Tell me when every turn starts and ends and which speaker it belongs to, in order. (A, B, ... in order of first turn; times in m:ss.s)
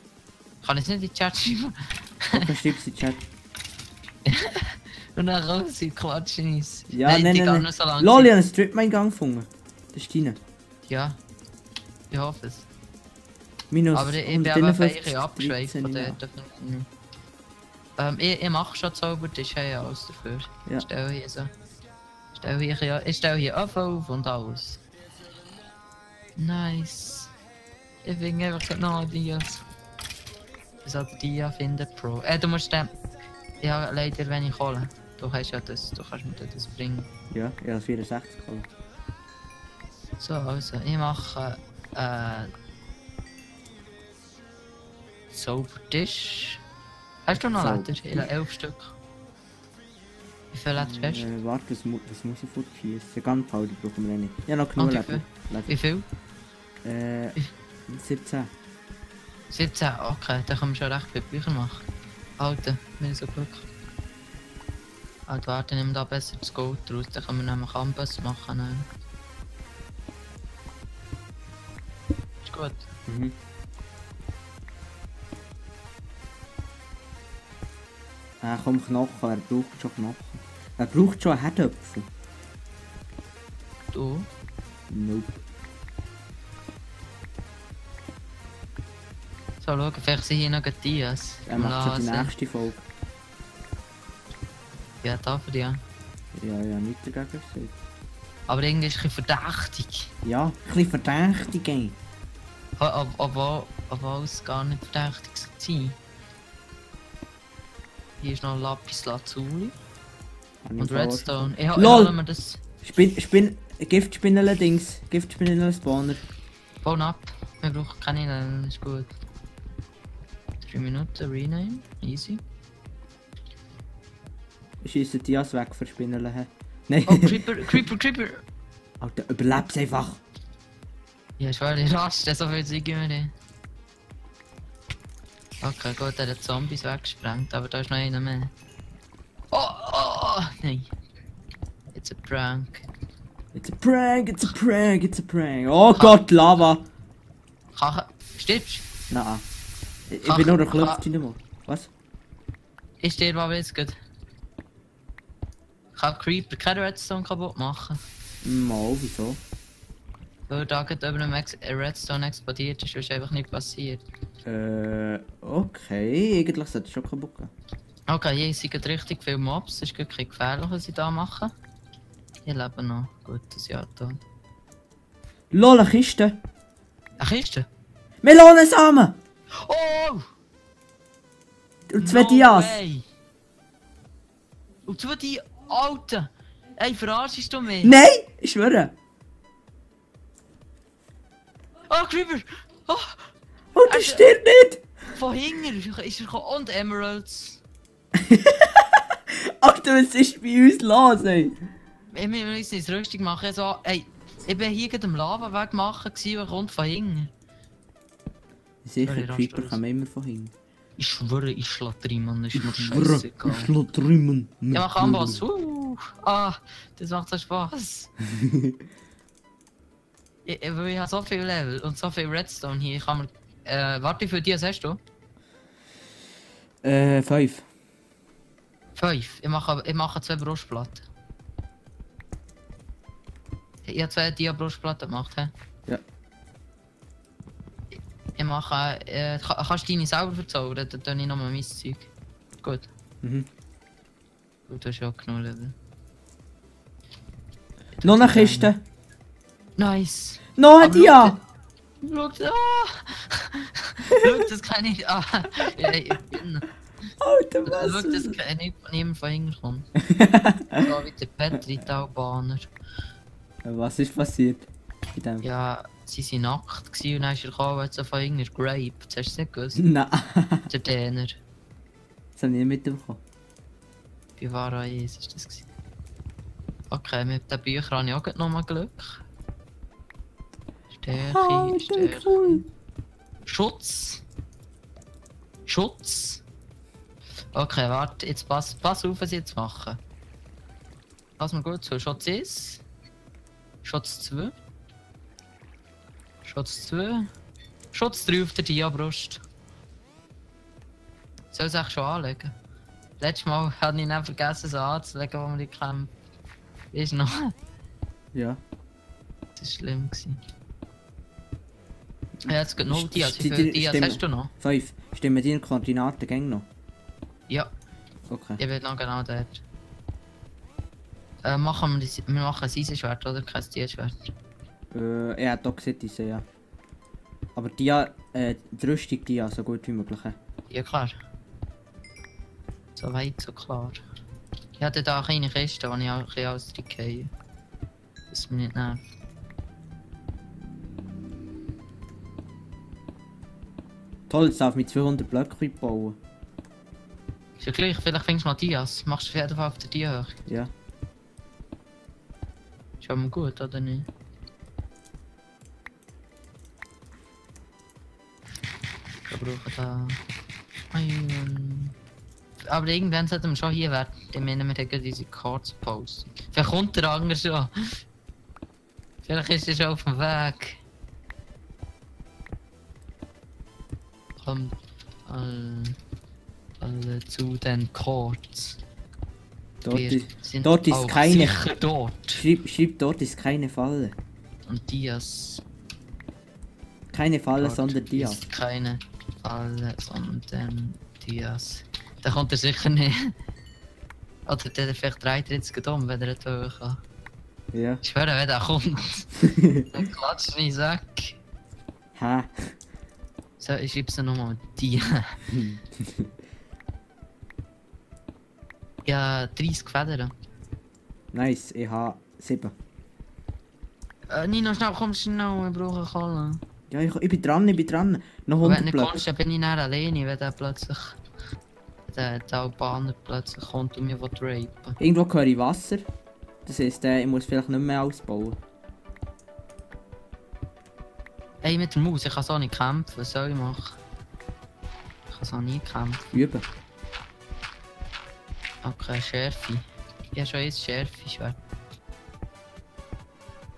0:00.6-0:02.5 A
0:02.3-0:03.2 B
0:04.2-0:08.3 A
0:06.9-0:10.4 B
0:10.9-0:11.2 A
0:12.1-0:12.7 A
0:13.7-0:16.2 B
0:13.9-0:16.9 A
0:18.0-0:21.5 A
0:22.3-0:24.8 A
0:26.4-0:27.3 A
0:28.0-0:29.6 A
0:30.8-0:32.9 A
0:33.6-0:37.1 A
0:37.3-0:38.7 B
0:40.2-0:42.5 A
0:45.3-0:46.6 A
0:47.2-0:48.9 A
0:47.3-0:48.3 B
0:50.5-0:51.3 A
0:50.8-0:55.7 B
0:54.8-0:56.0 A
0:56.8-0:57.4 B
0:57.9-0:58.5 B
0:59.5-1:01.8 A
1:02.4-1:03.7 A
1:05.3-1:08.8 A
1:12.4-1:12.8 A
1:13.1-1:13.3 B
1:18.4-1:22.1 B
1:23.9-1:24.3 A
1:24.9-1:25.4 B
1:29.6-1:32.3 A
1:31.5-1:32.8 B
1:35.0-1:35.8 A
1:36.3-1:37.7 B
1:38.5-1:40.1 A
1:40.2-1:42.0 B
1:42.8-1:46.0 A
1:48.2-1:49.7 A
1:50.6-1:52.2 B
1:50.8-1:52.6 A
1:52.8-1:56.2 B
1:56.8-1:59.1 A
2:00.6-2:02.4 A
2:04.8-2:07.8 B
2:07.0-2:08.4 A
2:09.0-2:10.2 B
2:11.4-2:13.3 A
2:15.6-2:18.5 A
2:19.5-2:20.9 A
2:21.9-2:22.8 A
2:23.5-2:26.8 B
2:25.9-2:26.2 A
2:27.8-2:28.8 A
2:29.1-2:29.4 B
2:30.1-2:31.9 B
2:30.2-2:31.0 A
2:33.0-2:34.0 A
2:36.0-2:38.0 A
2:38.4-2:39.4 B
2:40.5-2:44.0 A
2:44.4-2:47.5 B
2:48.1-2:51.5 A
2:52.4-2:54.2 A
2:55.5-2:56.4 B
2:57.2-2:57.7 A
2:58.2-2:59.2 B
2:59.6-3:00.2 A
3:01.9-3:02.8 B
3:02.0-3:03.0 A
3:04.9-3:07.9 A
3:07.8-3:08.9 B
3:11.9-3:13.3 A
3:13.7-3:14.8 B
3:13.8-3:14.3 A
3:15.1-3:17.6 A
3:18.1-3:21.6 B
3:22.1-3:27.3 A
3:28.8-3:30.5 B
3:29.0-3:29.8 A
3:31.0-3:33.7 A
3:32.5-3:35.4 B
3:34.7-3:38.1 A
3:38.3-3:38.8 B
3:40.4-3:45.0 A
3:46.8-3:47.6 B
3:49.0-3:51.0 A
3:53.8-3:55.5 A
3:58.4-4:02.1 A
4:02.6-4:02.9 A
4:03.2-4:03.5 B
4:04.7-4:05.7 A
4:08.0-4:08.7 A
4:08.0-4:08.8 B
4:09.8-4:11.4 A
4:10.6-4:11.4 B
4:12.0-4:16.7 A
4:14.0-4:14.5 B
4:17.2-4:18.4 B
4:17.6-4:19.9 A
4:20.0-4:20.8 B
4:20.8-4:22.7 A
4:23.6-4:25.4 B
4:25.4-4:29.8 A
4:29.8-4:30.7 B
4:30.7-4:31.4 A
4:32.4-4:33.2 B
4:34.4-4:35.7 A
4:36.9-4:39.2 A
4:40.9-4:42.6 A
4:41.1-4:42.6 B
4:43.4-4:44.2 A
4:45.6-4:46.4 A
4:47.5-4:50.0 A
4:51.4-4:52.8 A
4:53.8-4:54.5 A
4:56.4-4:57.3 A
4:57.9-4:59.4 A
5:01.5-5:02.5 A
5:03.2-5:06.1 A
5:06.9-5:07.5 A
5:08.3-5:08.6 B
5:09.6-5:10.4 A
5:12.4-5:14.5 A
5:12.8-5:16.6 B
5:18.3-5:18.6 B
5:18.6-5:19.6 A
5:21.4-5:24.3 A
5:24.9-5:26.4 B
5:27.5-5:30.4 B
5:30.7-5:31.2 A
5:33.0-5:34.0 A
5:34.8-5:37.3 A
5:38.3-5:39.0 A
5:44.3-5:46.2 B
5:47.6-5:50.4 A
5:53.0-5:54.1 A
5:59.3-6:00.2 A
6:00.9-6:01.9 A
6:02.7-6:08.0 A
6:09.2-6:10.8 A
6:14.4-6:14.7 A
6:15.2-6:16.0 A
6:16.8-6:18.8 A
6:19.8-6:21.6 B
6:19.9-6:22.4 A
6:22.3-6:24.2 B
6:24.7-6:25.6 A
6:27.1-6:28.4 B
6:27.6-6:33.3 A
6:34.4-6:37.0 A
6:37.7-6:38.0 B
6:38.0-6:39.3 A
6:39.4-6:39.9 B
6:39.9-6:41.4 A
6:42.1-6:42.7 B
6:43.6-6:45.4 A
6:45.5-6:46.3 B
6:49.0-6:50.3 A
6:51.3-6:52.7 B
6:54.3-6:56.6 A
6:56.9-6:59.3 B
6:58.6-7:01.2 A
7:02.1-7:05.0 A
7:05.0-7:06.0 B
7:06.6-7:08.6 B
7:11.6-7:14.0 A
7:15.3-7:16.4 A
7:16.3-7:16.6 B
7:18.8-7:21.6 A